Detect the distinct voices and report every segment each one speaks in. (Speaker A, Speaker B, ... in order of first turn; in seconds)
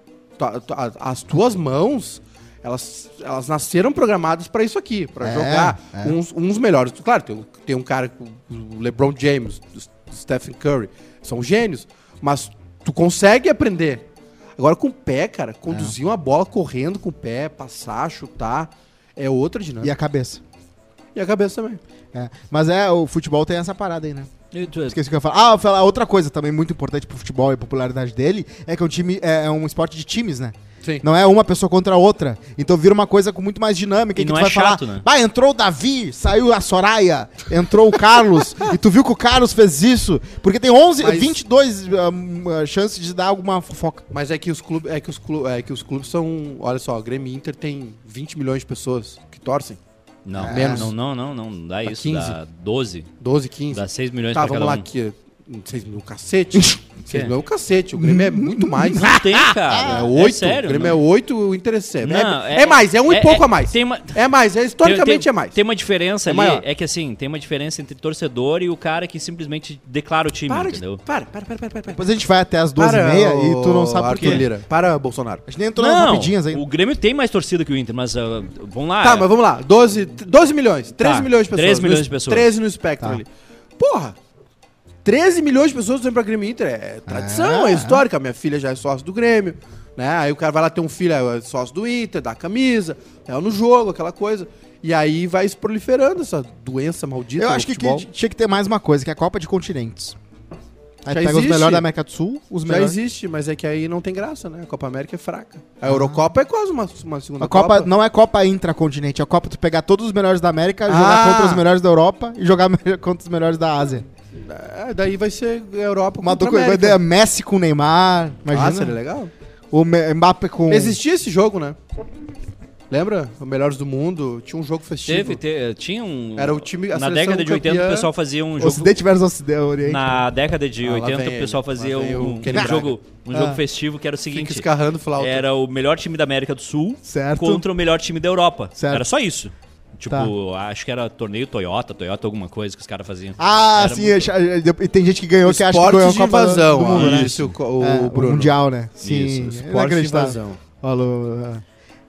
Speaker A: 0.4-14.1, 14.6-19.9, 21.1-21.8, 41.0-41.4, 44.1-49.8, 50.5-50.9, 51.9-52.4, 53.2-53.8, 54.3-59.1, 59.8-65.6, 66.3-66.6, 70.5-72.0, 72.8-75.5, 79.0-84.2, 85.0-98.1, 101.1-101.8, 102.7-107.9, 110.9-111.7, 114.4-117.0, 118.5-119.3, 120.7-121.8, 122.9-125.4, 126.4-128.1, 130.8-132.9, 134.3-135.4, 145.4-148.5, 149.4-150.6
Speaker B: 5.2-6.2, 19.8-20.4, 22.1-24.3, 24.9-44.0, 50.3-50.9, 58.0-60.1, 71.9-74.5, 75.5-76.6, 87.1-88.0, 97.4-100.2, 101.0-103.0, 105.8-106.2, 107.4-114.1, 116.2-119.0, 119.7-121.0, 128.6-130.2, 132.5-133.6, 137.1-137.7, 138.8-139.1, 143.4-151.6
Speaker C: 24.5-25.0, 34.2-35.0, 50.2-53.1, 53.7-54.9, 59.0-61.0, 62.0-64.2, 64.8-71.0, 74.2-74.4, 75.8-79.3, 81.0-82.5, 125.1-129.0, 129.8-134.7, 135.2-144.3, 146.9-147.5, 149.0-149.5